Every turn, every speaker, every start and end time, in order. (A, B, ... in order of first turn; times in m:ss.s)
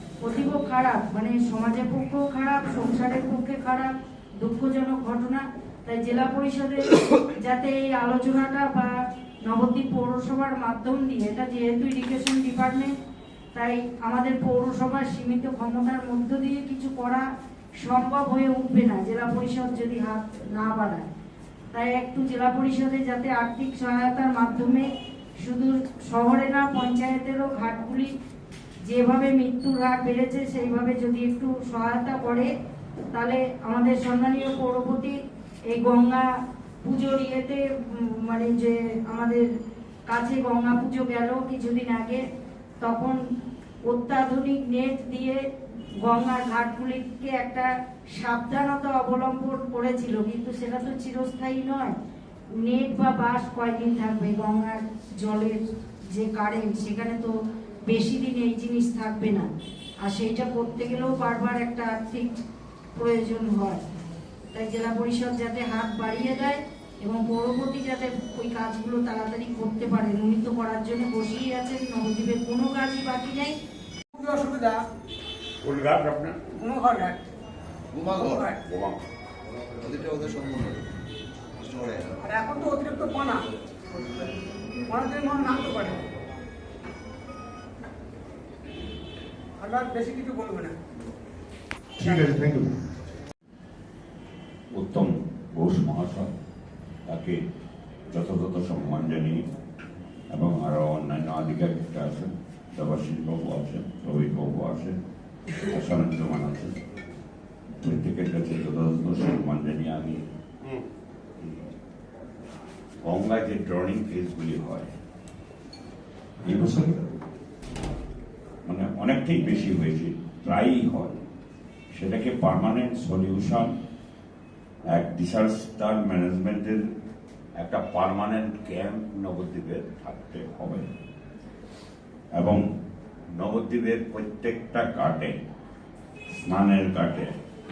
0:00.2-0:12.9 A
0:13.5-0:17.2 A
0:17.8-0:21.0 A
0:21.7-0:24.9 A
0:25.4-0:28.1 A
0:28.8-0:32.5 A
0:33.1-0:35.1 A
0:35.7-0:36.3 A
0:36.8-0:39.5 A
0:40.1-0:42.2 A
0:42.8-0:43.2 A
0:43.8-0:45.4 A
0:46.0-0:51.9 A
0:52.6-0:57.3 A
0:57.8-0:59.5 A
1:00.0-1:02.4 A
1:02.9-1:03.8 A
1:04.5-1:13.5 A
1:14.2-1:14.8 B
1:15.6-1:16.4 C
1:16.6-1:17.1 B
1:17.9-1:18.4 D
1:18.2-1:18.5 B
1:18.7-1:18.9 C
1:19.8-1:20.7 D
1:21.6-1:22.1 D
1:22.2-1:23.4 B
1:24.9-1:26.0 B
1:29.6-1:30.7 B
1:32.1-1:32.5 C
1:34.7-1:36.3 C
1:37.1-1:37.4 C
1:38.1-1:39.4 C
1:40.3-1:45.0 C
1:45.7-1:46.7 C
1:47.8-1:50.2 C
1:51.4-1:51.7 C
1:53.0-1:54.8 C
1:56.4-1:56.9 C
1:58.6-2:01.2 C
2:01.9-2:03.7 C
2:04.9-2:06.8 C
2:07.6-2:10.8 C
2:12.3-2:12.6 C
2:13.3-2:15.3 C
2:16.3-2:17.3 C